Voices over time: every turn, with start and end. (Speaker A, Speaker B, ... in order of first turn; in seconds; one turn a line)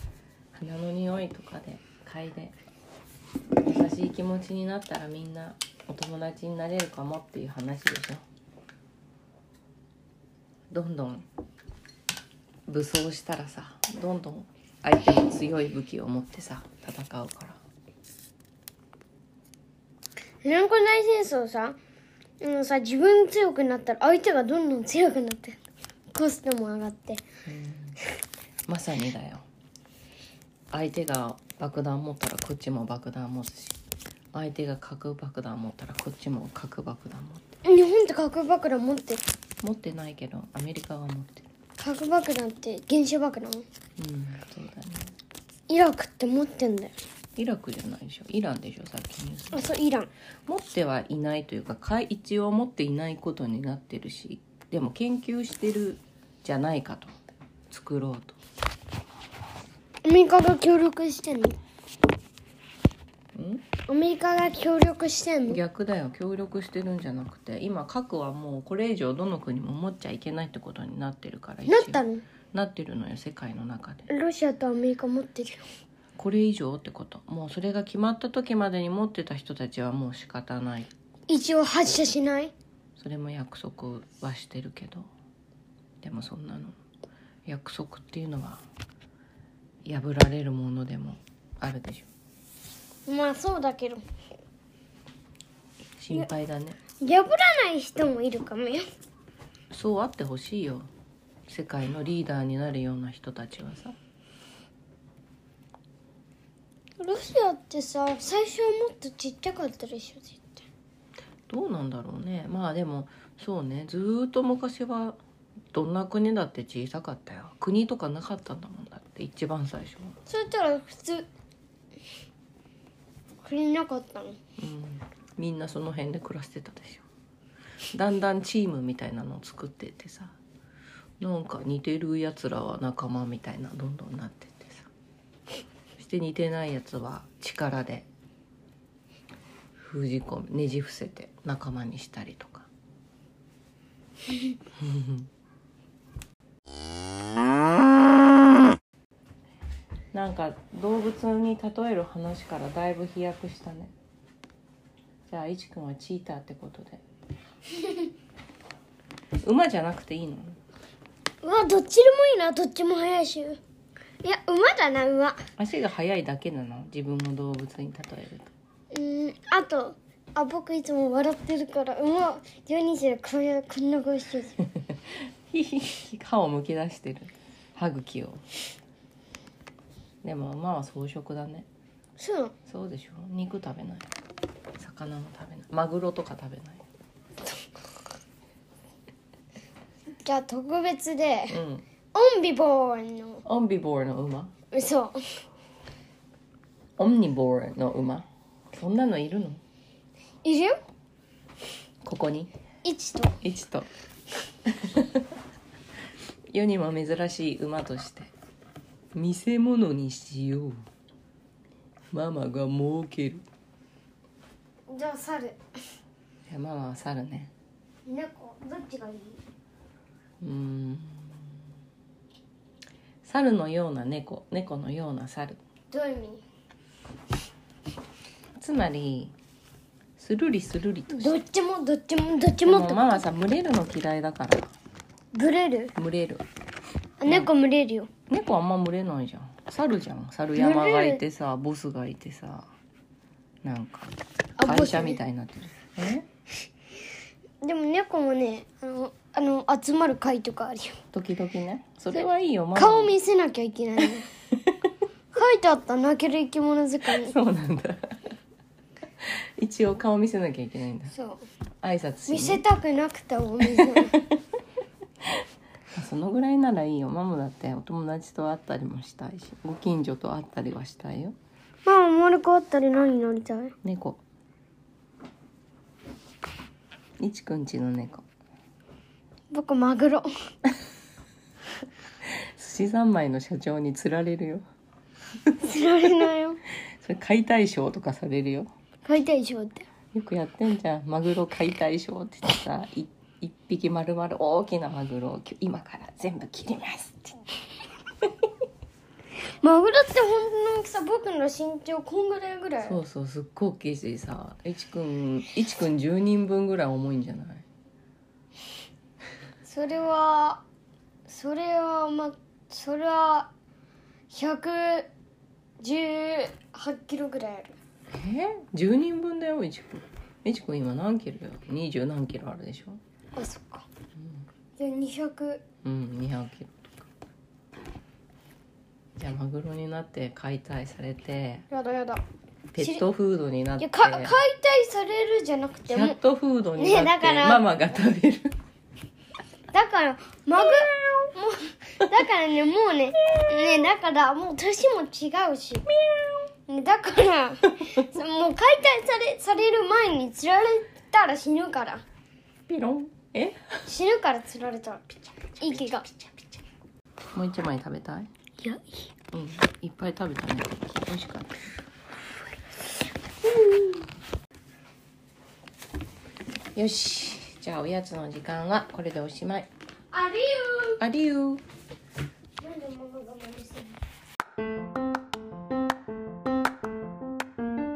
Speaker A: 0.5-2.6
Speaker A: 3.6-8.2
Speaker A: 10.7-11.3
Speaker A: 12.7-17.6
Speaker B: 20.4-21.8
Speaker B: 22.4-25.6
Speaker B: 26.1-27.2
Speaker A: 27.5-28.0
Speaker A: 28.7-29.4
Speaker A: 30.7-33.8
Speaker A: 34.3-37.5
Speaker B: 37.6-39.2
Speaker A: 39.6-41.5
Speaker B: 41.8-43.6
Speaker A: 44.0-45.1
Speaker B: 45.7-46.9
Speaker A: 47.4-49.7
Speaker B: 49.5-50.1
Speaker A: 50.5-57.2
Speaker A: 57.7-58.4
Speaker B: 60.0-61.6
Speaker A: 63.4-63.6
Speaker B: 63.9-65.6
Speaker A: 65.5-72.0
Speaker B: 71.7-72.2
Speaker A: 72.5-74.1
Speaker B: 74.1-75.7
Speaker A: 76.2-80.9
Speaker B: 81.3-82.5
Speaker A: 83.0-85.1
Speaker A: 86.0-86.8
Speaker A: 87.5-88.7
Speaker A: 89.8-92.1
Speaker B: 93.1-94.0
Speaker A: 96.0-96.8
Speaker B: 97.0-98.9
Speaker A: 99.7-100.9
Speaker A: 101.5-104.0
Speaker B: 107.0-110.6
Speaker A: 111.5-115.2
Speaker A: 115.7-120.2
Speaker B: 120.3-121.3
Speaker B: 123.4-124.4
Speaker A: 124.6-127.0
Speaker A: 127.9-130.3
Speaker A: 131.2-134.9
Speaker A: 136.0-138.1
Speaker A: 139.8-142.7
Speaker A: 144.8-145.3
Speaker A: 150.1-153.9
Speaker A: 155.3-157.0
Speaker A: 159.4-160.6
Speaker B: 161.4-163.6
Speaker B: 164.2-165.4
Speaker A: 165.6-168.5
Speaker B: 168.9-174.6
Speaker A: 175.5-178.4
Speaker A: 180.2-181.7
Speaker B: 182.2-182.6
Speaker A: 182.7-184.1
Speaker A: 184.8-186.8
Speaker B: 190.2-191.6
Speaker A: 191.5-191.8
Speaker B: 192.1-193.4
Speaker A: 193.5-194.5
Speaker B: 194.7-195.2
Speaker A: 197.0-199.6
Speaker B: 200.4-200.8
Speaker A: 202.0-202.5
Speaker B: 202.8-203.4
Speaker A: 203.4-203.9
Speaker A: 204.7-205.3
Speaker A: 206.5-208.3
Speaker A: 209.1-210.8
Speaker A: 212.1-213.4
Speaker B: 214.9-215.6
Speaker A: 216.5-217.5
Speaker B: 218.1-219.4
Speaker A: 220.4-221.4
Speaker A: 223.2-225.6
Speaker B: 225.9-226.4
Speaker A: 228.6-229.3
Speaker A: 230.2-231.4
Speaker B: 231.1-233.2
Speaker A: 232.6-234.7
Speaker B: 235.3-235.9
Speaker A: 235.9-236.4
Speaker B: 237.2-238.1
Speaker A: 238.3-242.7
Speaker B: 240.6-241.2
Speaker A: 243.6-244.1
Speaker B: 244.6-245.2
Speaker A: 244.6-246.3
Speaker B: 247.6-251.0
Speaker A: 251.1-253.2
Speaker B: 252.1-254.3
Speaker B: 255.3-257.4
Speaker A: 257.1-258.2
Speaker A: 259.2-261.1
Speaker B: 261.1-261.4
Speaker A: 261.8-262.6
Speaker B: 262.3-264.2
Speaker A: 263.7-264.4
Speaker A: 265.9-271.4
Speaker B: 271.9-273.7
Speaker A: 273.8-274.2
Speaker A: 277.2-278.3
Speaker B: 279.5-280.3
Speaker A: 282.2-284.6
Speaker A: 285.5-286.3
Speaker B: 285.6-286.6
Speaker A: 287.0-288.7
Speaker B: 289.1-289.9
Speaker A: 290.1-297.4
Speaker B: 299.6-303.0
Speaker A: 302.8-307.6
Speaker B: 309.6-310.6
Speaker B: 311.3-313.5
Speaker B: 314.3-315.1
Speaker B: 315.8-317.8
Speaker A: 318.1-323.0
Speaker B: 323.3-323.9
Speaker A: 324.2-324.5
Speaker B: 324.8-325.6
Speaker A: 325.8-327.1
Speaker A: 329.2-331.7
Speaker B: 331.7-332.2
Speaker A: 332.7-334.4
Speaker B: 333.8-336.2
Speaker A: 335.9-338.6
Speaker B: 336.8-337.7
Speaker B: 339.7-345.9
Speaker A: 346.0-346.4
Speaker B: 346.7-352.0
Speaker A: 352.7-353.6
Speaker B: 353.9-356.1
Speaker A: 357.3-358.3
Speaker B: 358.6-359.1
Speaker A: 359.3-361.7
Speaker B: 363.4-364.0
Speaker A: 366.8-369.7
Speaker B: 370.1-371.0
Speaker A: 371.0-371.6
Speaker B: 372.6-374.0